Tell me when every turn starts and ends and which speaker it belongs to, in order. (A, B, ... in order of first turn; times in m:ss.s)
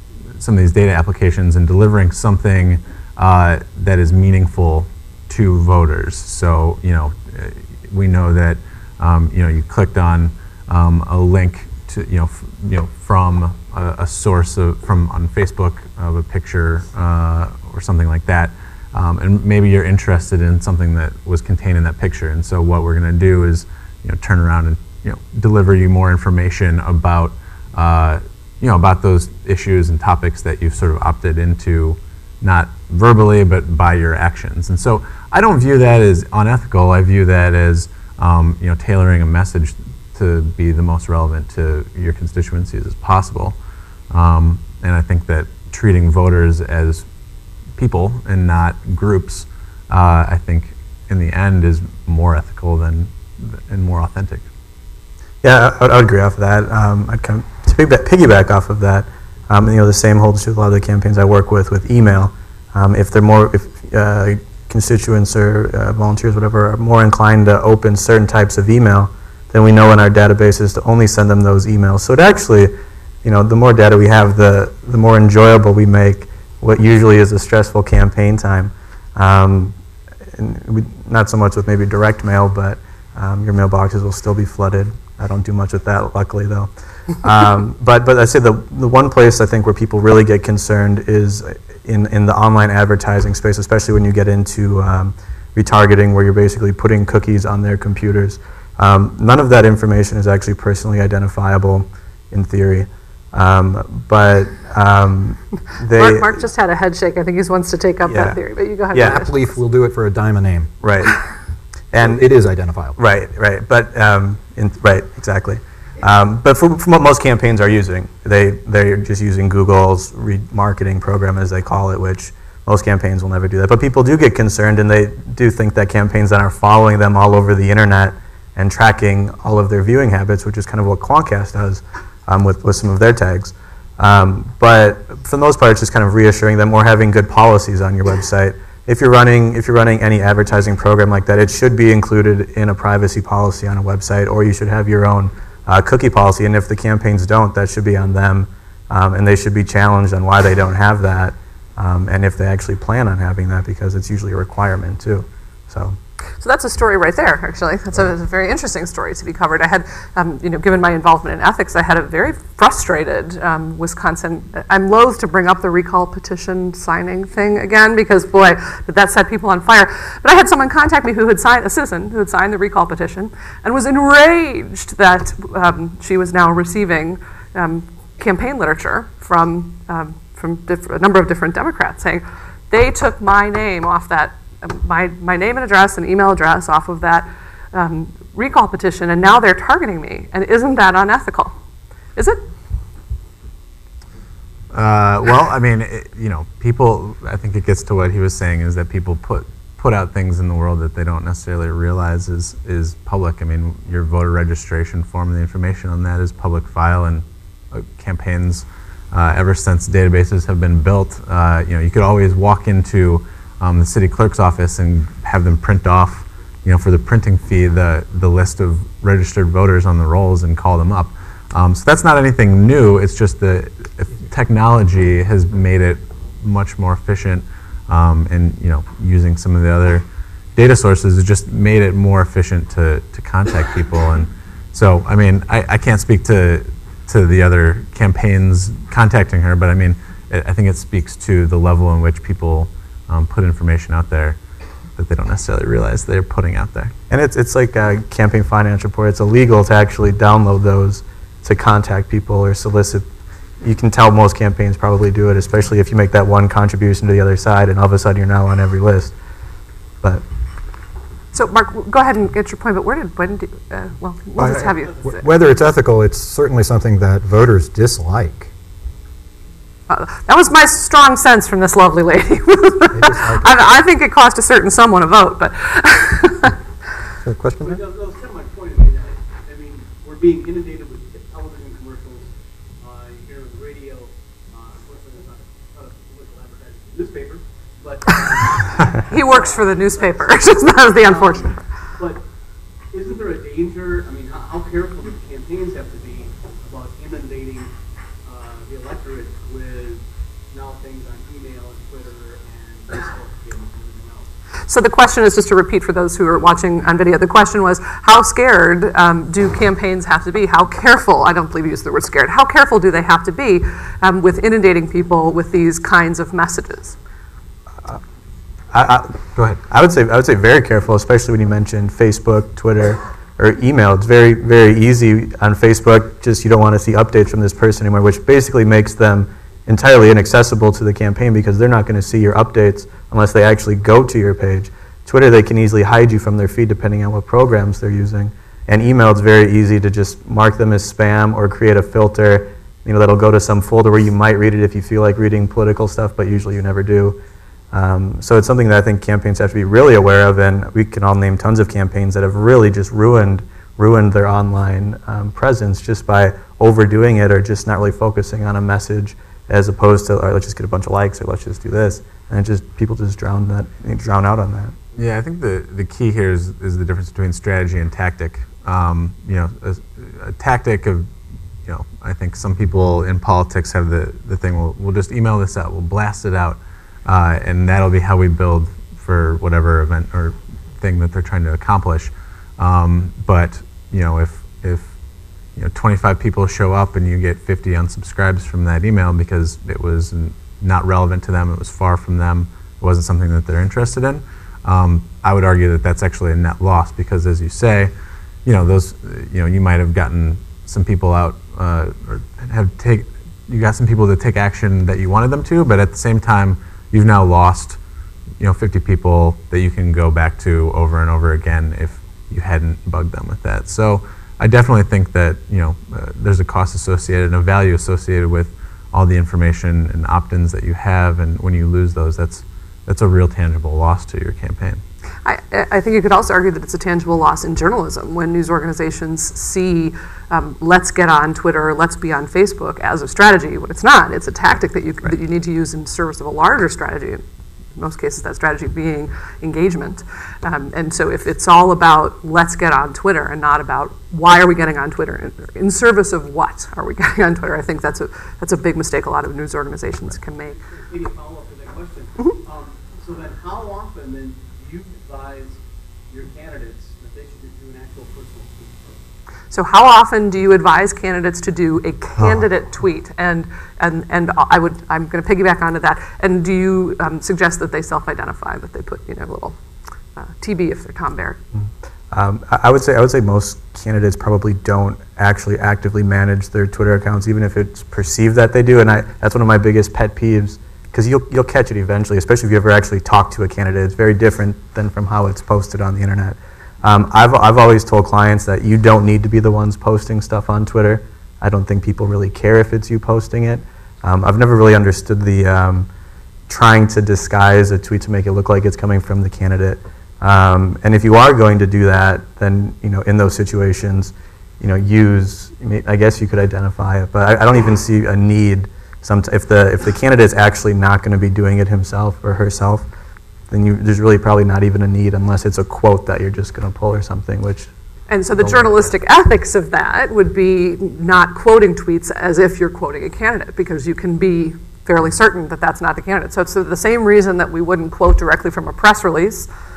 0:00.4-0:43.6 A
0:44.1-0:47.0 A
0:47.8-0:54.4 A
0:55.4-1:19.8 B
1:20.3-1:46.4 B
1:45.9-1:49.4 C
1:48.0-1:48.4 B
1:48.9-1:49.2 B
1:49.0-1:50.7 D
1:50.8-1:51.2 B
1:51.9-1:52.2 B
1:51.9-1:53.0 D
1:53.0-2:36.0 B
2:36.4-3:11.6 C
3:12.2-3:12.4 C
3:14.7-4:04.4 A
4:05.0-4:06.9 A
4:07.1-4:13.1 B
4:13.6-4:19.2 B
4:21.3-4:25.2 C
4:24.4-4:28.5 D
4:29.9-4:36.6 C
4:33.0-4:33.5 D
4:37.2-4:37.8 D
4:37.6-4:52.2 E
4:49.1-4:51.5 C
4:52.9-4:57.7 E
4:58.2-5:04.3 E
5:04.7-5:17.0 C
5:18.7-5:47.2 B
5:47.7-6:04.8 B
6:05.0-6:11.1 A
6:11.7-6:24.9 A
6:25.6-6:37.9 A
6:38.4-6:47.8 A
6:48.4-7:04.8 A
7:05.2-7:17.2 C
7:17.8-7:30.6 C
7:30.5-7:39.0 E
7:39.5-7:49.6 C
7:50.2-7:51.4 C
7:51.6-8:15.9 B
8:16.5-8:32.9 B
8:33.5-8:37.7 B
8:38.1-8:49.5 C
8:38.4-8:38.9 B